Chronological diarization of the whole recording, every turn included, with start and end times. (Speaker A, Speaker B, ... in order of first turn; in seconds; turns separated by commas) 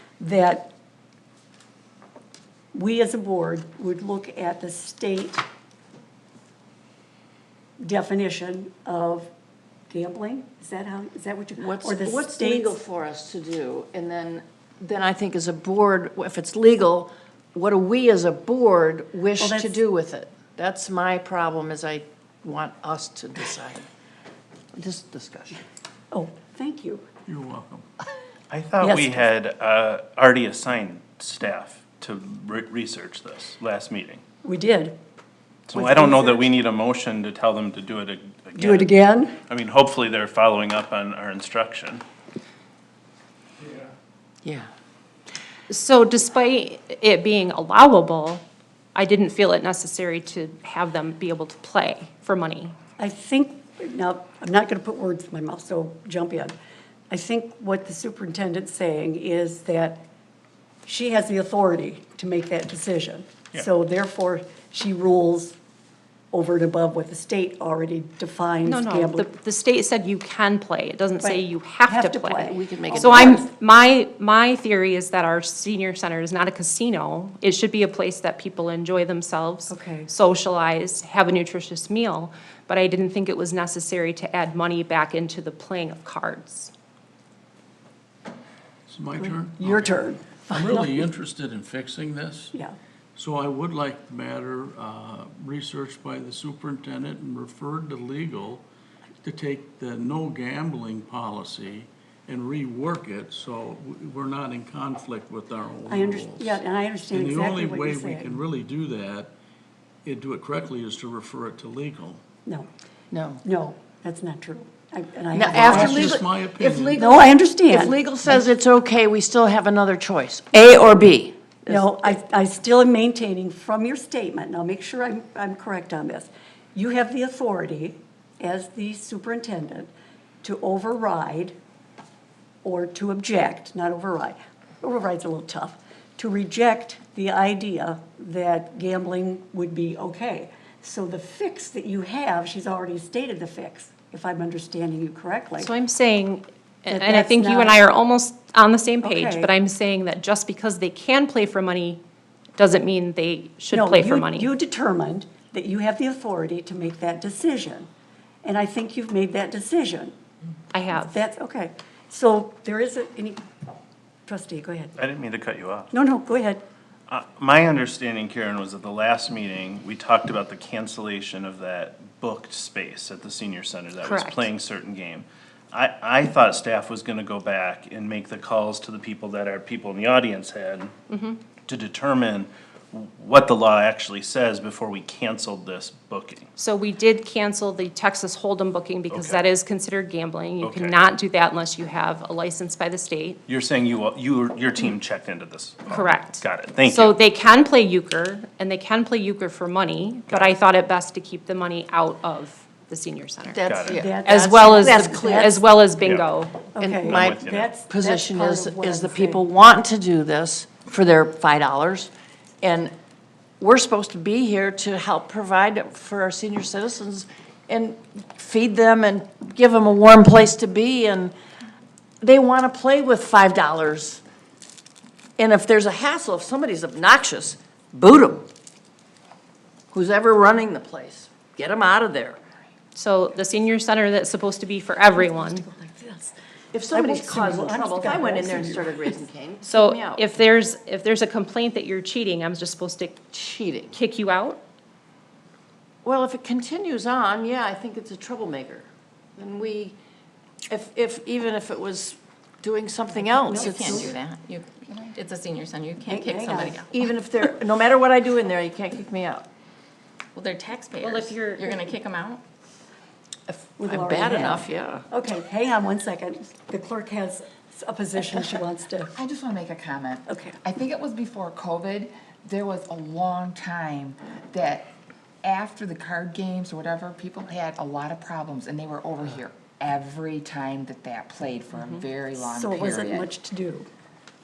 Speaker A: 0.2-0.7, Speaker A: 2.7-5.4, Speaker A: 7.8-9.3, Speaker A: 9.9-12.8, Speaker B: 11.6-23.9, Speaker A: 19.4-19.8, Speaker B: 24.7-25.6, Speaker A: 26.1-27.0, Speaker C: 27.3-27.8, Speaker D: 28.5-34.2, Speaker A: 28.8-29.3, Speaker A: 34.4-34.9, Speaker D: 35.7-38.9, Speaker A: 35.7-36.5, Speaker A: 38.6-39.3, Speaker D: 39.5-42.0, Speaker B: 44.4-44.7, Speaker E: 45.7-48.4, Speaker E: 48.9-52.8, Speaker A: 53.0-56.5, Speaker A: 57.1-60.0, Speaker A: 60.9-65.5, Speaker A: 66.3-69.3, Speaker E: 68.6-86.7, Speaker A: 71.2-73.5, Speaker B: 72.5-73.4, Speaker A: 79.7-80.1, Speaker C: 88.9-92.5, Speaker A: 89.1-91.0, Speaker C: 93.2-98.7, Speaker C: 99.2-109.3, Speaker A: 105.9-108.4, Speaker C: 110.0-112.2, Speaker B: 113.1-113.4, Speaker A: 113.4-116.2, Speaker B: 115.3-122.2, Speaker C: 115.5-117.0, Speaker A: 116.9-118.5, Speaker A: 121.7-129.9, Speaker A: 130.4-131.5, Speaker A: 132.6-145.7, Speaker E: 145.6-152.0, Speaker A: 146.9-147.8, Speaker A: 149.0-149.5, Speaker E: 152.6-154.5, Speaker A: 153.7-157.9, Speaker A: 158.4-160.2, Speaker E: 160.7-161.2, Speaker A: 160.9-163.4, Speaker A: 164.2-164.9, Speaker D: 165.0-165.9, Speaker A: 165.9-166.6, Speaker D: 167.1-180.9, Speaker E: 174.0-174.5, Speaker E: 181.1-181.4, Speaker D: 181.7-186.4, Speaker E: 186.6-193.4, Speaker D: 189.1-189.4, Speaker D: 190.6-191.0, Speaker D: 193.5-197.2, Speaker E: 195.9-203.6, Speaker D: 200.3-200.6, Speaker B: 203.4-205.6, Speaker D: 203.7-204.1, Speaker A: 203.9-205.6, Speaker E: 204.2-206.7, Speaker A: 206.7-209.4, Speaker B: 206.8-212.9, Speaker D: 207.0-207.7, Speaker B: 213.6-221.3, Speaker B: 222.2-224.2, Speaker B: 225.4-228.5, Speaker B: 229.9-232.4, Speaker E: 232.9-235.6, Speaker A: 235.1-236.3, Speaker B: 236.7-240.2, Speaker A: 236.9-239.2, Speaker E: 239.6-243.3, Speaker B: 243.3-243.9, Speaker E: 243.9-244.6, Speaker B: 246.0-249.9, Speaker B: 250.7-254.2, Speaker F: 253.4-256.9, Speaker A: 253.4-254.2, Speaker A: 256.1-256.8, Speaker B: 256.2-259.5, Speaker F: 260.3-262.4, Speaker E: 261.0-261.8, Speaker B: 263.5-265.0, Speaker A: 263.8-269.1, Speaker G: 269.1-274.9, Speaker A: 270.3-270.6, Speaker G: 275.4-283.3, Speaker A: 282.4-283.9